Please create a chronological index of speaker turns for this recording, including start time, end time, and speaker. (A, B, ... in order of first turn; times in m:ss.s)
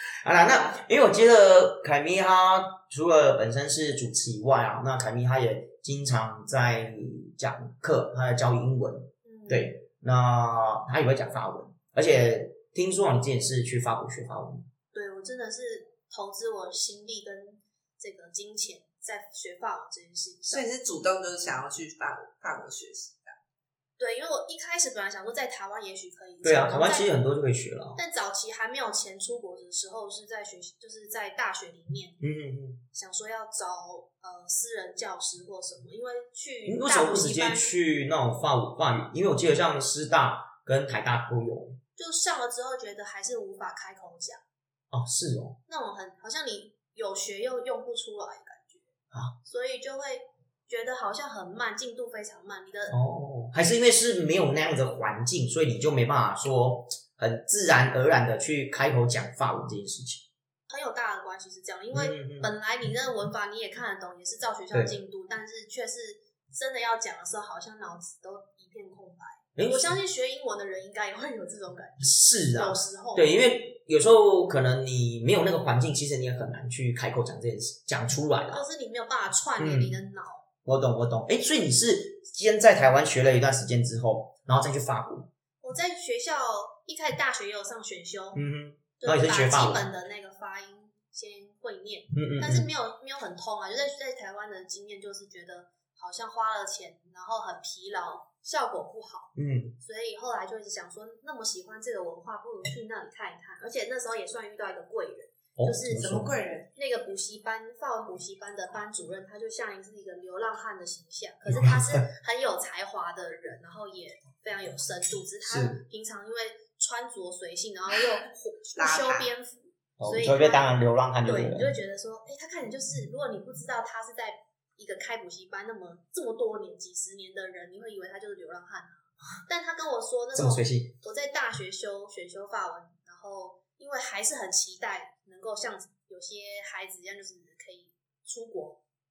0:00.2-0:14.6 A
0:09.2-0:09.8 B
0:14.9-0:20.7 B
0:20.5-0:23.4 C
0:24.0-0:27.1 B
0:26.4-0:28.0 A
0:28.0-0:32.2 B
0:32.2-0:32.8 A
0:32.9-0:37.7 B
0:36.7-0:41.8 A
0:42.0-0:44.4 B
0:44.9-0:45.6 A
0:45.7-0:48.9 B
0:49.4-0:53.0 B
0:52.9-1:00.2 A
1:00.7-1:13.3 B
1:01.9-1:02.5 A
1:09.6-1:10.0 A
1:12.0-1:18.6 A
1:18.5-1:20.4 B
1:19.6-1:20.0 A
1:20.6-1:25.3 A
1:25.6-1:28.4 B
1:28.3-1:29.9 A
1:29.0-1:46.2 B
1:32.1-1:32.7 A
1:39.4-1:39.8 A
1:45.6-1:46.3 A
1:46.0-1:46.7 C
1:46.8-2:00.7 B
1:51.5-1:52.0 A
1:55.4-1:55.8 A
1:58.8-1:59.3 C
2:00.0-2:01.7 A
2:01.2-2:18.8 B
2:10.3-2:10.9 A